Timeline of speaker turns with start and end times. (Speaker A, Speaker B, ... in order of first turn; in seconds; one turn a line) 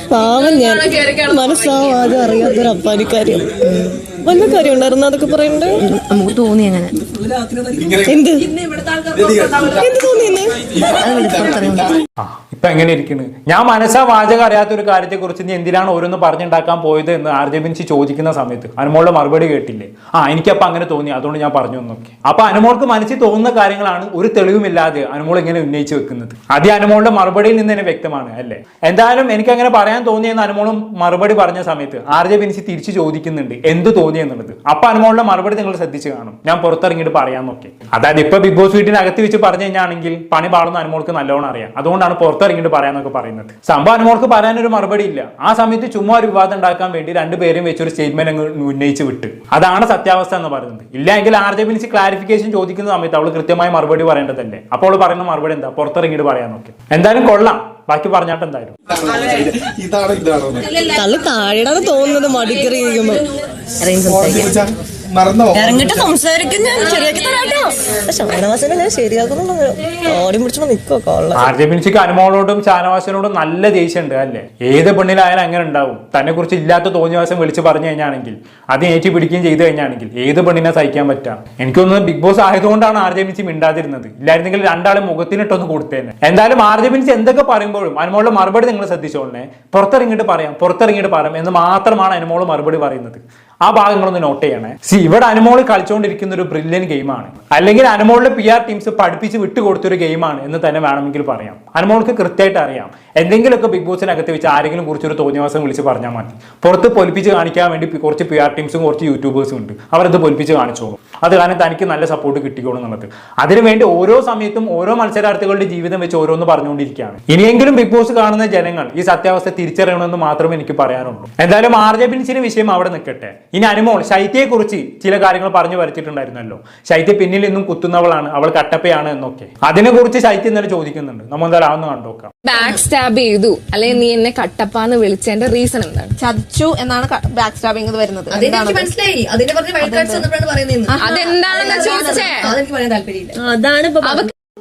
Speaker A: 0.1-5.8
Speaker B: 5.8-7.0
Speaker C: 7.7-8.1
Speaker A: 8.1-8.5
Speaker C: 9.1-9.8
Speaker A: 9.7-10.6
Speaker B: 11.0-12.0
Speaker D: 12.2-58.8
Speaker C: 59.0-60.8
Speaker A: 60.9-63.2
Speaker B: 63.8-64.4
Speaker C: 64.1-65.7
Speaker A: 65.5-71.5
Speaker D: 71.3-132.3
Speaker E: 132.4-136.2
Speaker B: 132.5-132.8
Speaker F: 136.2-138.8
Speaker B: 138.3-143.4
Speaker E: 140.9-142.5
Speaker F: 141.0-142.2
Speaker E: 144.0-144.3